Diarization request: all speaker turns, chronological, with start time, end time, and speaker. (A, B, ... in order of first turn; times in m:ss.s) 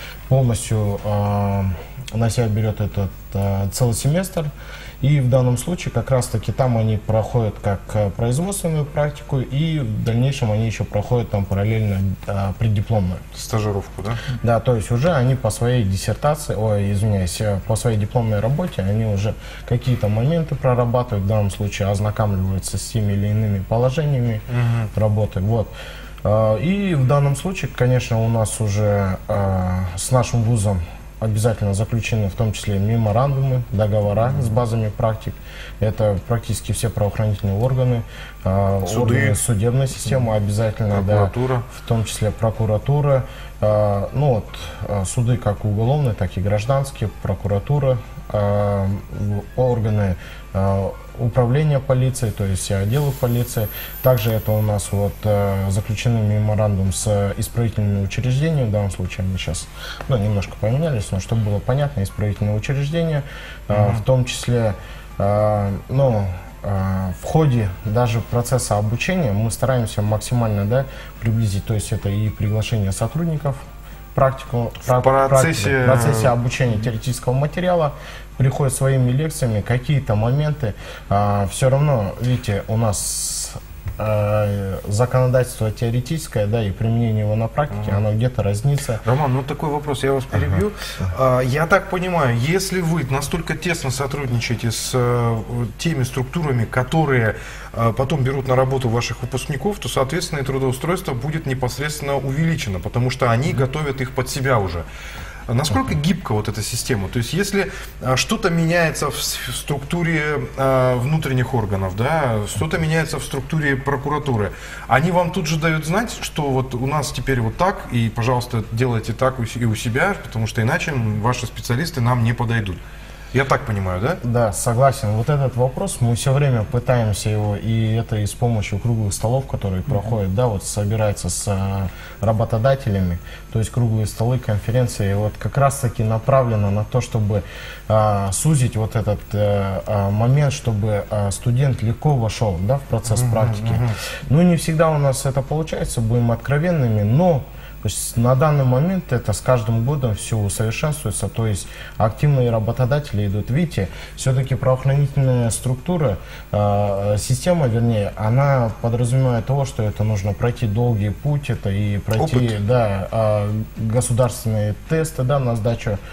0:00.3-0:13.2 A
0:13.3-0:14.2 B
0:14.4-0:25.7 A
0:24.5-0:24.9 B
0:26.2-1:13.6 A
0:34.2-0:34.6 B
0:38.8-0:39.4 B
0:40.0-0:40.3 B
0:40.9-0:41.6 B
1:03.7-1:04.0 B
1:14.1-1:29.0 A
1:14.8-1:16.3 B
1:27.7-1:28.0 B
1:29.0-1:44.8 B
1:45.5-2:02.8 B
2:03.3-2:04.2 B
2:04.2-2:46.0 A
2:23.1-2:23.9 B
2:42.2-2:42.5 B